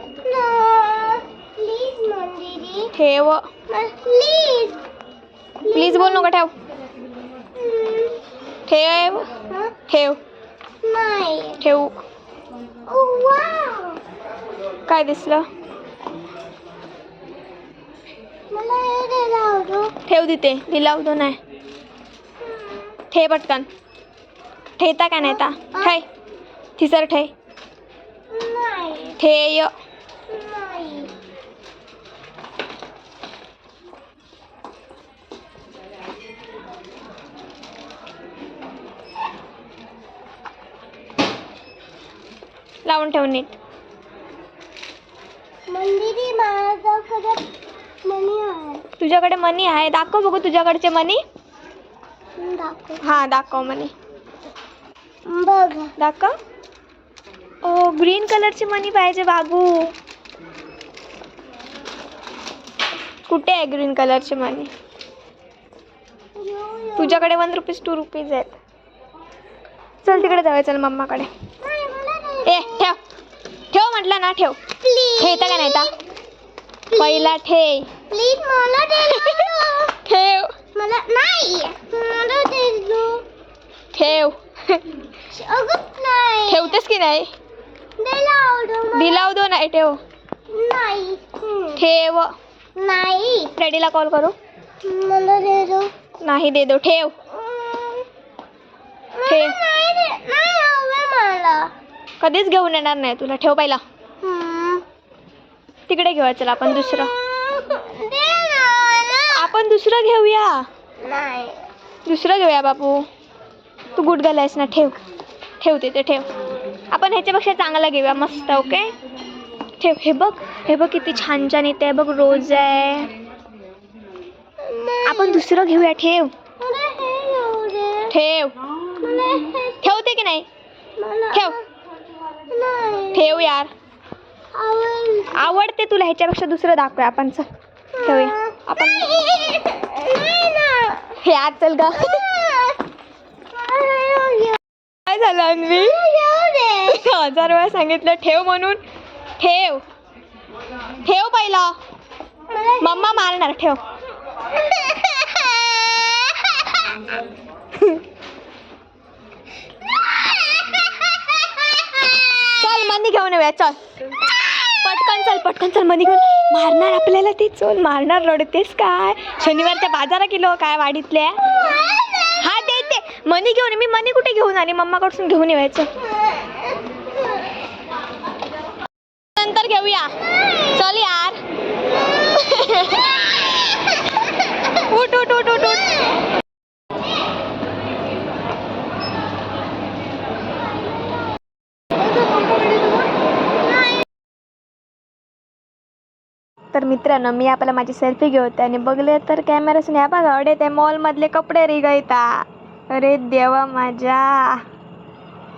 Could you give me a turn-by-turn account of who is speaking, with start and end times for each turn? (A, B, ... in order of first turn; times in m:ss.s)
0:00.2-0:02.9 A
0:03.0-0:03.4 B
0:03.7-0:04.8 A
0:05.6-0:06.3 A
0:05.7-0:06.5 B
0:07.6-0:08.2 A
0:08.7-0:09.3 B
0:09.9-0:10.2 B
0:10.8-0:11.6 A
0:11.6-0:12.0 B
0:12.9-0:14.0 A
0:14.9-0:15.5 B
0:18.5-0:19.9 A
0:20.1-0:21.4 B
0:22.4-0:23.0 A
0:23.1-0:23.6 B
0:24.8-0:26.0 B
0:25.2-0:26.0 A
0:26.8-0:27.3 B
0:28.3-0:29.2 A
0:29.2-0:29.7 B
0:30.3-0:31.1 A
0:42.8-0:43.5 B
0:45.7-0:47.4 A
0:48.1-0:48.8 A
0:49.0-0:51.2 B
0:52.4-0:53.0 A
0:53.0-0:53.9 B
0:55.3-0:55.9 A
0:56.0-0:56.3 B
0:57.6-0:59.9 B
1:03.3-1:04.7 B
1:06.4-1:07.3 A
1:07.0-1:08.6 B
1:10.0-1:11.3 B
1:10.1-1:10.4 A
1:11.6-1:12.8 A
1:12.5-1:13.0 B
1:13.7-1:14.6 B
1:14.8-1:15.9 A
1:15.2-1:15.9 B
1:16.9-1:17.4 A
1:17.0-1:17.9 B
1:18.1-1:20.0 A
1:19.1-1:19.5 B
1:20.0-1:20.5 B
1:20.8-1:23.2 A
1:23.9-1:24.8 B
1:25.3-1:26.8 A
1:26.5-1:27.3 B
1:28.0-1:29.3 A
1:28.9-1:30.0 B
1:30.5-1:31.8 A
1:31.8-1:32.3 B
1:32.8-1:33.5 A
1:33.6-1:34.3 B
1:34.8-1:35.9 A
1:36.2-1:37.1 B
1:37.3-1:38.1 A
1:39.1-1:41.6 A
1:39.2-1:39.6 B
1:42.2-1:43.8 B
1:44.2-1:44.8 A
1:45.9-1:47.1 B
1:46.9-1:49.5 A
1:49.3-1:50.6 B
1:51.0-1:51.6 A
1:52.1-1:53.0 B
1:54.0-1:55.0 B
1:55.6-1:56.3 B
1:56.9-1:58.9 B
1:59.8-2:03.1 B
2:04.6-2:05.5 A
2:05.0-2:06.3 B
2:06.6-2:08.1 A
2:08.1-2:08.6 B
2:09.0-2:09.9 A
2:09.8-2:10.5 B
2:11.0-2:11.6 A
2:12.5-2:13.4 A
2:13.1-2:13.7 B
2:14.5-2:15.6 A
2:15.3-2:17.5 B
2:18.0-2:21.2 A
2:18.0-2:19.6 B
2:21.2-2:22.2 B
2:23.5-2:24.6 A
2:25.1-2:26.0 B
2:25.7-2:27.0 A
2:26.9-2:28.8 B
2:29.4-2:29.8 B
2:31.0-2:31.8 B
2:32.5-2:33.3 A
2:32.8-2:33.8 B
2:34.7-2:36.5 A
2:42.5-2:43.8 B
2:44.8-2:51.4 B
2:52.3-2:55.9 B
2:59.4-3:00.1 B
3:00.7-3:01.4 B
3:02.3-3:03.2 B
3:04.8-3:05.9 B
3:16.7-3:24.6 B